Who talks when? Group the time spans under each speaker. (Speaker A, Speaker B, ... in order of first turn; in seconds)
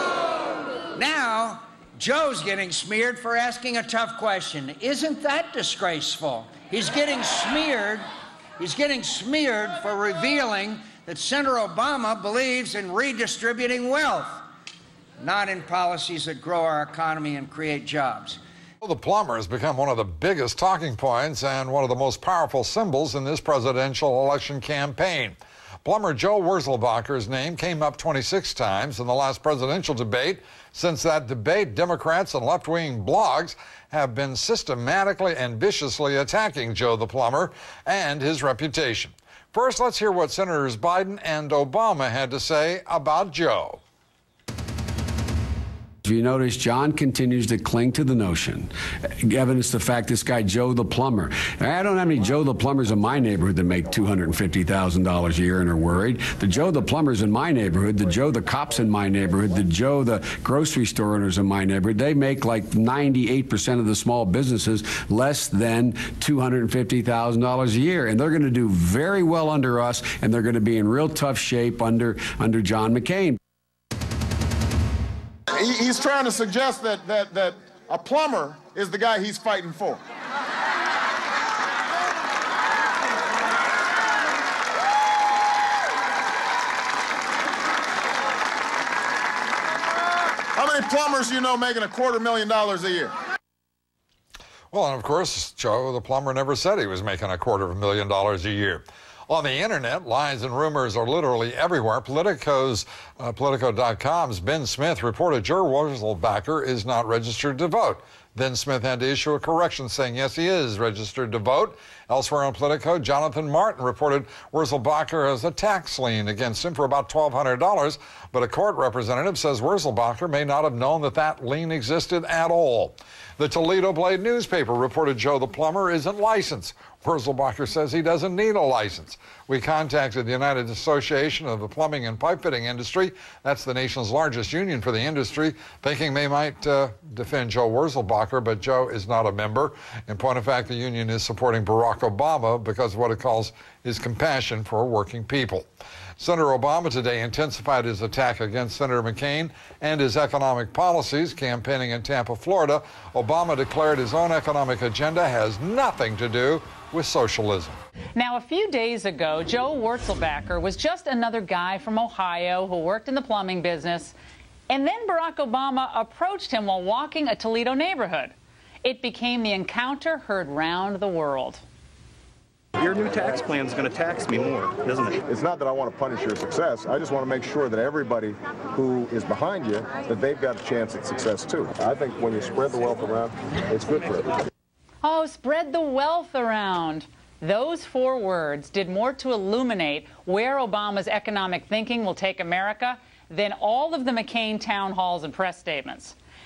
Speaker A: 1.0-8.0, 8.6-14.4, 15.2-18.4
Speaker B: 18.8-43.8, 94.7-145.7, 146.2-157.8
Speaker C: 46.0-48.7, 49.2-73.4
Speaker D: 75.6-80.0, 90.5-93.1, 175.3-184.4
Speaker E: 158.2-164.2, 164.7-168.3, 168.8-171.6, 185.0-196.2
Speaker F: 172.8-175.2